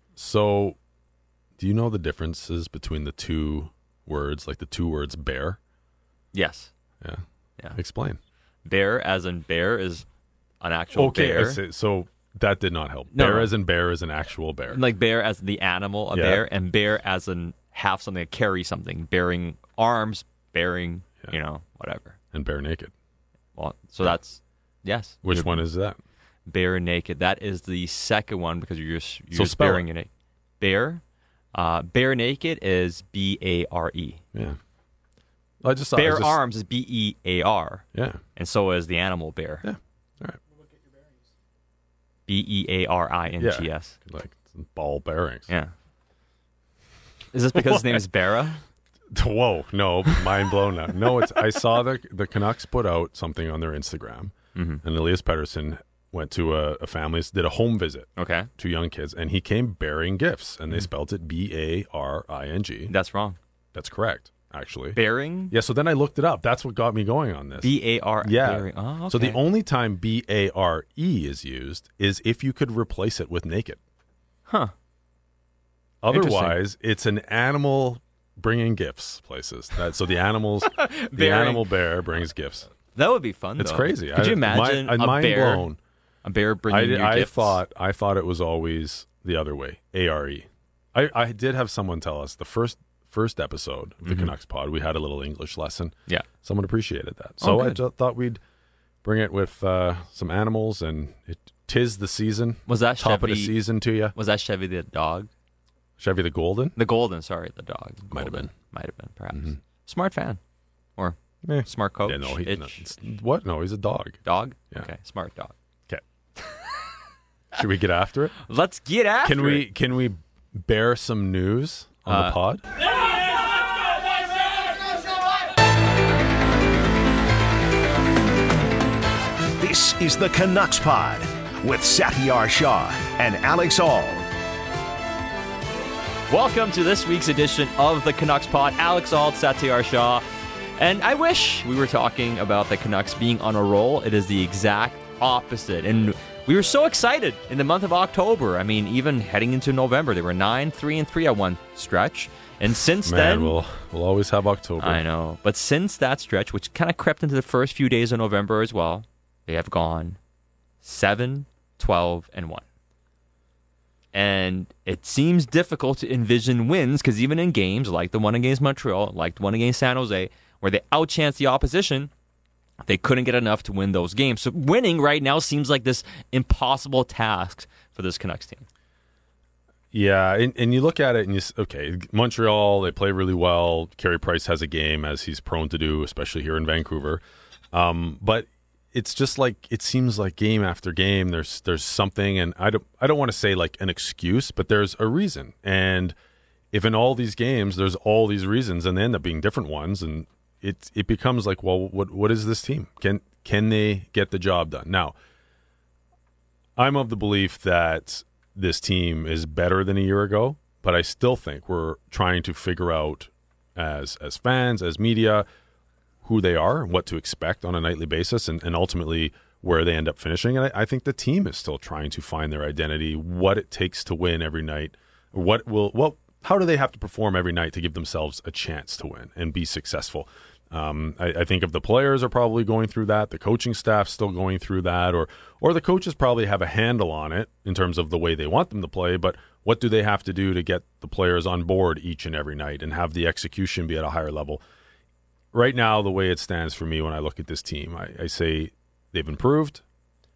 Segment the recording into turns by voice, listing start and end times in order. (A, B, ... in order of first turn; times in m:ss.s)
0:00.2-0:00.8 A
0:01.6-0:05.6 A
0:06.3-0:06.7 B
0:07.0-0:08.2 A
0:08.6-0:10.0 B
0:10.6-0:11.6 B
0:10.9-0:14.8 A
0:13.1-0:13.5 B
0:14.7-0:22.2 B
0:16.1-0:16.4 A
0:22.3-0:22.9 A
0:23.5-0:25.6 B
0:25.2-0:26.0 A
0:26.4-0:30.1 B
0:29.3-0:29.8 A
0:30.6-0:31.0 B
0:31.5-0:34.2 B
0:35.6-0:36.4 A
0:36.0-0:37.8 B
0:37.9-0:38.2 A
0:38.4-0:39.6 B
0:39.6-0:40.4 A
0:42.3-0:43.9 B
0:43.4-0:45.5 A
0:45.5-0:45.7 B
0:47.3-0:48.6 B
0:47.7-0:48.0 A
0:49.1-1:02.9 A
0:54.5-0:54.8 B
0:58.2-0:58.5 B
1:02.9-1:03.4 B
1:03.7-1:05.0 A
1:04.9-1:05.5 B
1:05.5-1:13.8 A
1:07.6-1:09.4 B
1:14.5-1:14.7 B
1:16.0-1:22.7 A
1:16.1-1:16.6 B
1:20.6-1:21.7 B
1:22.9-1:25.7 B
1:23.6-1:25.8 A
1:26.2-1:27.6 B
1:26.7-1:38.4 A
1:34.0-1:34.3 B
1:37.4-1:37.8 B
1:39.0-1:44.1 A
1:42.7-1:43.5 B
1:44.1-1:45.3 B
1:46.0-1:46.8 A
1:46.8-1:50.4 B
1:48.1-1:48.5 A
1:51.0-1:52.8 B
1:51.4-1:54.2 A
1:54.2-1:55.5 B
1:56.4-1:56.7 B
1:57.5-1:58.4 A
1:58.4-1:59.6 B
1:59.2-2:02.6 A
2:02.1-2:02.4 B
2:09.6-2:14.3 C
2:16.3-2:20.2 B
2:20.8-2:33.5 B
2:33.0-2:35.0 A
2:34.8-2:40.2 B
2:40.8-2:42.6 B
2:44.1-2:52.1 B
2:52.8-2:58.6 B
2:59.9-3:16.1 A
3:16.7-3:25.1 A
3:26.8-3:35.4 A
3:36.2-4:04.6 A
4:05.5-4:09.8 A